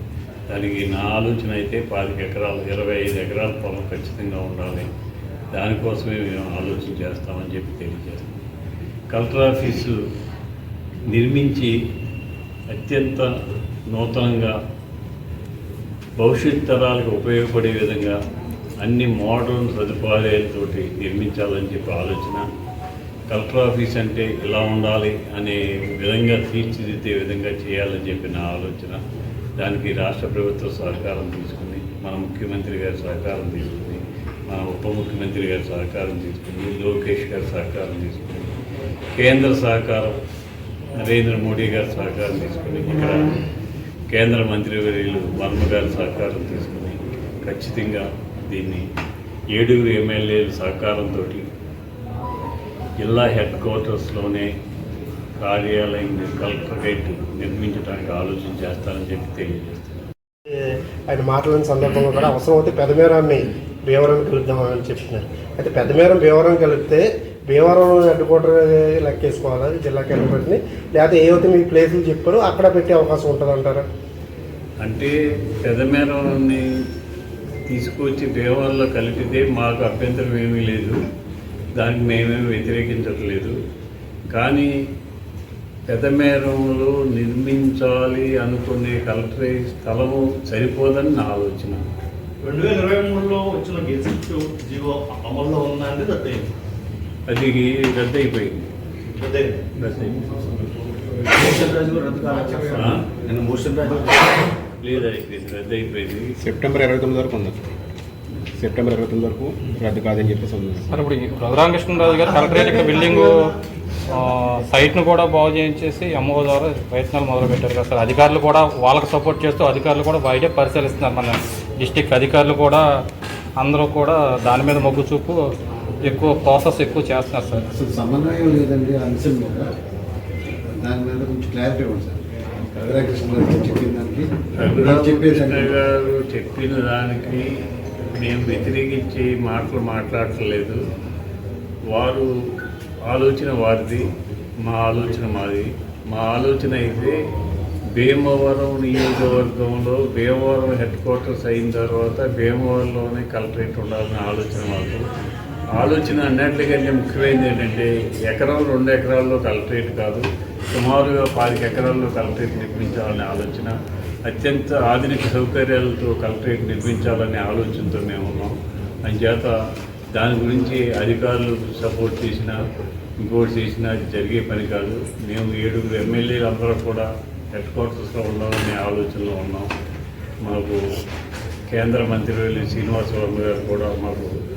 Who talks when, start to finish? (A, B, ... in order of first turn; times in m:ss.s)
0:00.5-0:04.9 A
0:05.5-0:08.4 A
0:09.1-0:10.0 A
0:11.1-0:11.7 A
0:12.7-0:13.3 A
0:13.9-0:14.6 A
0:16.2-0:18.2 A
0:18.8-0:22.5 A
0:23.3-0:29.0 A
0:29.6-0:38.5 A
0:39.2-0:40.2 A
0:41.0-0:43.4 A
0:44.1-0:48.8 A
0:49.5-0:51.5 A
0:53.0-0:54.5 A
0:55.4-1:00.0 A
1:00.6-1:13.9 B
1:14.8-1:16.6 A
1:17.7-1:21.0 A
1:21.8-1:23.6 A
1:24.3-1:24.7 A
1:25.9-1:31.8 A
1:32.4-1:36.5 C
1:37.3-1:38.7 A
1:39.2-1:39.6 C
1:39.7-1:40.2 A
1:41.5-1:42.6 D
1:41.6-1:42.0 C
1:42.7-1:43.1 A
1:44.8-1:46.4 A
1:46.4-1:47.6 E
1:48.6-1:50.9 E
1:50.9-1:53.5 F
1:54.1-2:03.0 F
2:03.6-2:07.7 F
2:07.7-2:09.7 D
2:10.8-2:12.2 D
2:12.8-2:15.7 D
2:14.6-2:17.5 A
2:18.1-2:20.8 A
2:21.9-2:22.3 A
2:23.1-2:24.1 A
2:24.6-2:27.2 A
2:28.0-2:35.0 A
2:35.7-2:43.8 A
2:44.3-2:49.6 A
2:50.1-2:52.6 A
2:53.2-2:59.7 A
3:00.4-3:01.0 A
3:01.7-3:04.4 A